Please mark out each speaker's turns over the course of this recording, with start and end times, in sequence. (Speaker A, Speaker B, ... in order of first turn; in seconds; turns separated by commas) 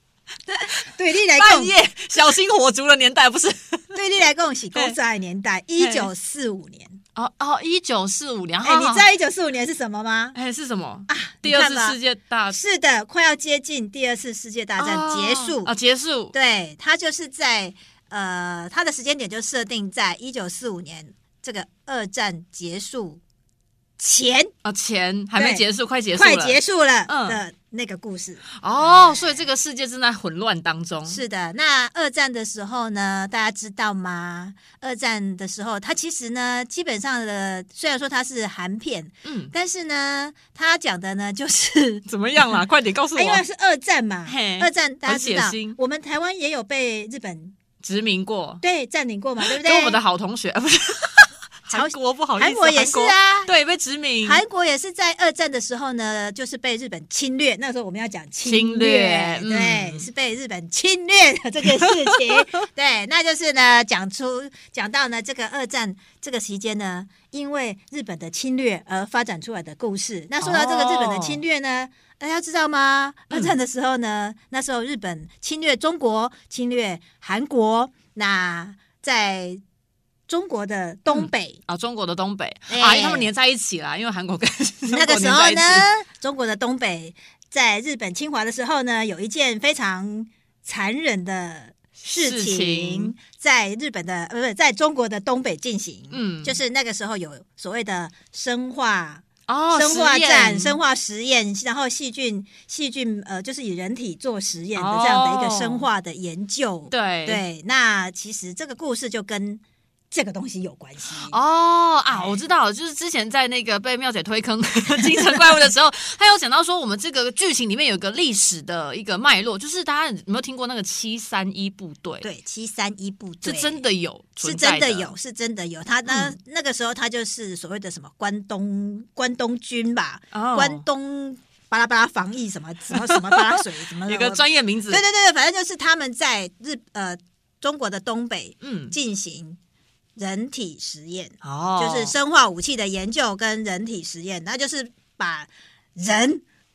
Speaker A: 0.5-1.7, Speaker B: 1.3-4.0, Speaker A: 3.9-7.0, Speaker B: 5.8-6.1, Speaker B: 7.1-9.1, Speaker A: 8.6-10.3, Speaker B: 10.3-12.6, Speaker A: 11.1-12.0, Speaker A: 12.5-15.7, Speaker B: 14.8-16.3, Speaker A: 16.3-23.2, Speaker A: 24.0-24.5, Speaker B: 24.6-26.6, Speaker A: 25.4-29.4, Speaker B: 27.1-27.4, Speaker B: 28.6-31.2, Speaker A: 31.1-42.6, Speaker B: 39.2-39.5, Speaker B: 42.1-43.4, Speaker A: 43.1-47.5, Speaker B: 44.3-45.8, Speaker B: 47.8-48.6, Speaker A: 48.6-50.0, Speaker B: 49.4-54.4, Speaker A: 51.7-53.5, Speaker A: 54.2-79.6, Speaker B: 58.4-60.1, Speaker B: 70.4-71.4, Speaker A: 80.3-81.6, Speaker B: 81.1-85.9, Speaker A: 82.7-83.3, Speaker A: 84.9-111.3, Speaker B: 92.0-93.1, Speaker B: 96.1-96.6, Speaker B: 99.5-100.8, Speaker B: 104.8-105.9, Speaker B: 106.9-107.4, Speaker B: 111.2-122.3, Speaker A: 122.2-123.8, Speaker B: 123.4-125.1, Speaker A: 124.4-139.6, Speaker B: 126.0-126.3, Speaker B: 130.3-130.8, Speaker B: 132.9-135.0, Speaker B: 138.6-138.9, Speaker A: 140.2-146.4, Speaker B: 141.4-142.1